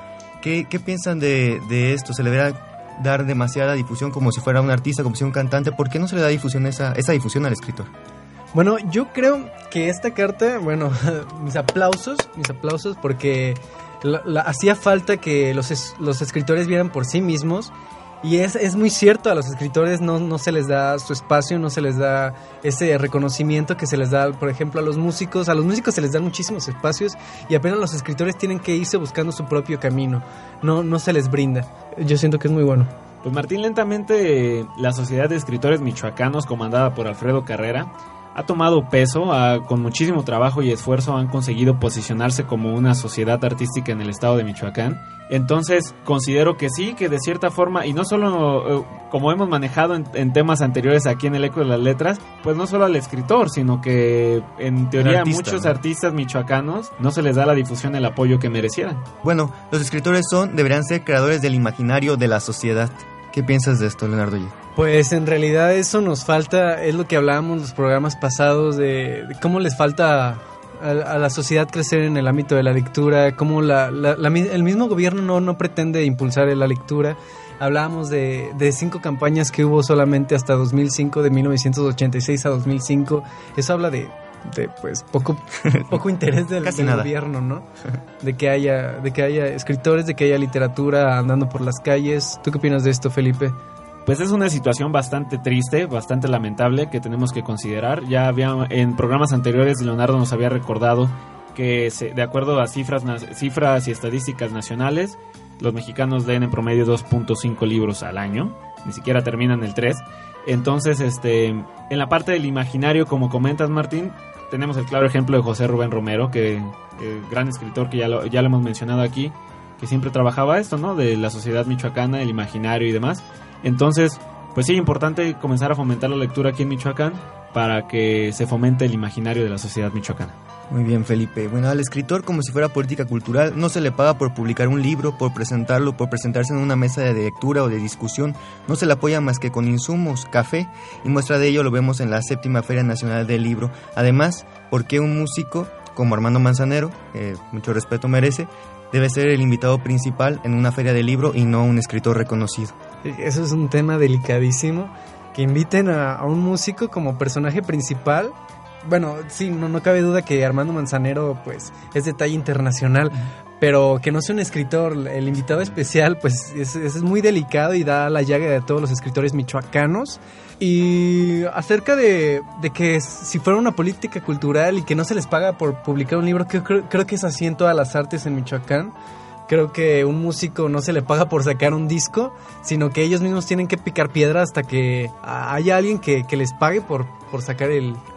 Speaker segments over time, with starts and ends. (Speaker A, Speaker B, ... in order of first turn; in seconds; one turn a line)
Speaker A: 0.4-7.9
Speaker B: 8.5-32.9
Speaker C: 33.2-59.0
Speaker A: 55.0-55.8
Speaker A: 59.2-64.5
Speaker B: 64.8-87.7
Speaker A: 85.7-86.0
Speaker A: 86.6-87.1
Speaker B: 88.2-93.5
Speaker C: 94.0-130.3
Speaker A: 130.7-152.8
Speaker B: 153.0-178.9
Speaker B: 179.5-188.0